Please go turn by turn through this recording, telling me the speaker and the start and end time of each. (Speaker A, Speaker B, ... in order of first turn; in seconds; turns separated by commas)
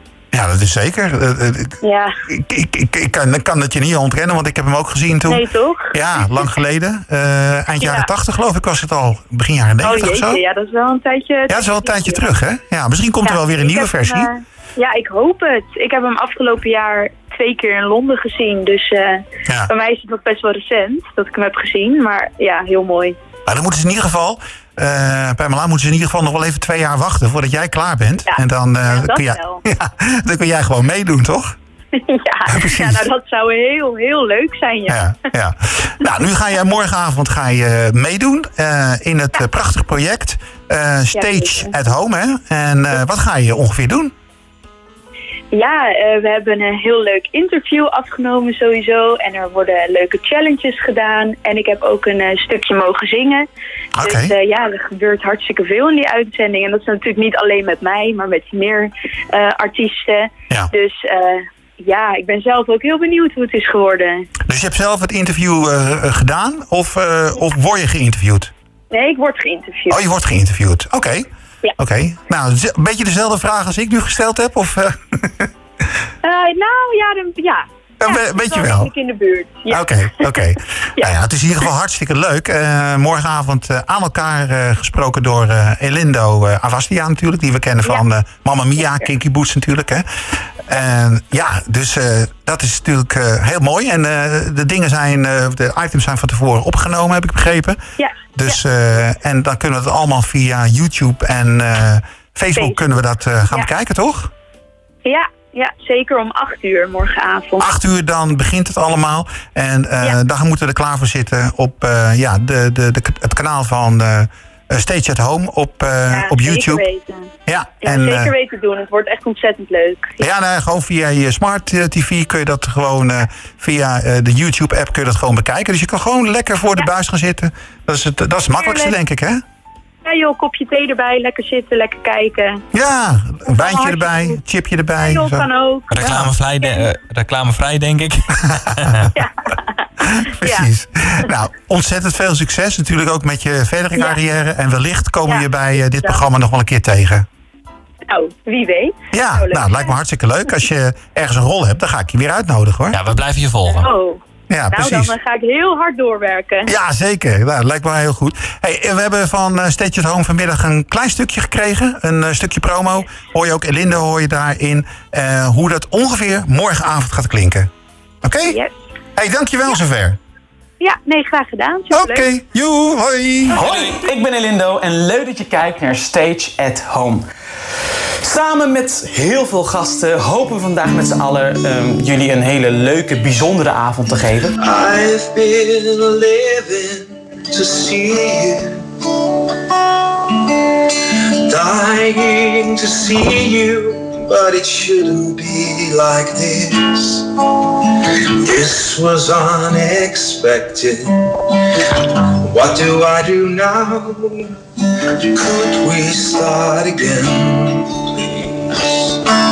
Speaker A: 0.3-10.4, Speaker B: 1.8-2.1, Speaker B: 5.3-6.4, Speaker B: 7.8-8.1, Speaker B: 9.8-12.3, Speaker A: 11.5-14.3, Speaker B: 13.2-23.2, Speaker A: 19.4-19.7, Speaker A: 23.4-31.6, Speaker B: 28.3-29.6, Speaker B: 31.9-35.0, Speaker A: 32.5-33.0, Speaker A: 34.9-44.1, Speaker B: 41.1-41.7, Speaker B: 45.5-53.5, Speaker A: 53.9-54.3, Speaker B: 54.0-64.3, Speaker A: 64.5-68.5, Speaker B: 68.9-70.0, Speaker A: 69.9-75.5, Speaker B: 76.2-81.1, Speaker A: 78.0-78.9, Speaker A: 79.7-90.0, Speaker A: 90.7-97.8, Speaker B: 98.0-98.6, Speaker A: 98.3-104.3, Speaker B: 102.5-102.9, Speaker B: 105.0-107.7, Speaker A: 107.6-116.8, Speaker B: 116.1-117.3, Speaker A: 117.5-118.3, Speaker B: 117.8-120.2, Speaker A: 120.2-129.4, Speaker B: 128.5-128.9, Speaker B: 130.0-132.6, Speaker A: 132.7-136.3, Speaker B: 133.5-134.4, Speaker B: 135.0-136.8, Speaker C: 135.9-139.1, Speaker B: 139.1-140.7, Speaker A: 140.0-147.2, Speaker B: 145.3-146.2, Speaker B: 148.1-149.9, Speaker A: 149.1-153.0, Speaker C: 152.9-153.9, Speaker B: 153.7-156.7, Speaker A: 154.5-155.1, Speaker A: 156.7-167.7, Speaker A: 168.2-168.6, Speaker A: 169.2-170.2, Speaker B: 170.8-172.3, Speaker A: 171.9-173.6, Speaker D: 173.5-177.3, Speaker D: 178.2-184.5, Speaker E: 184.6-209.0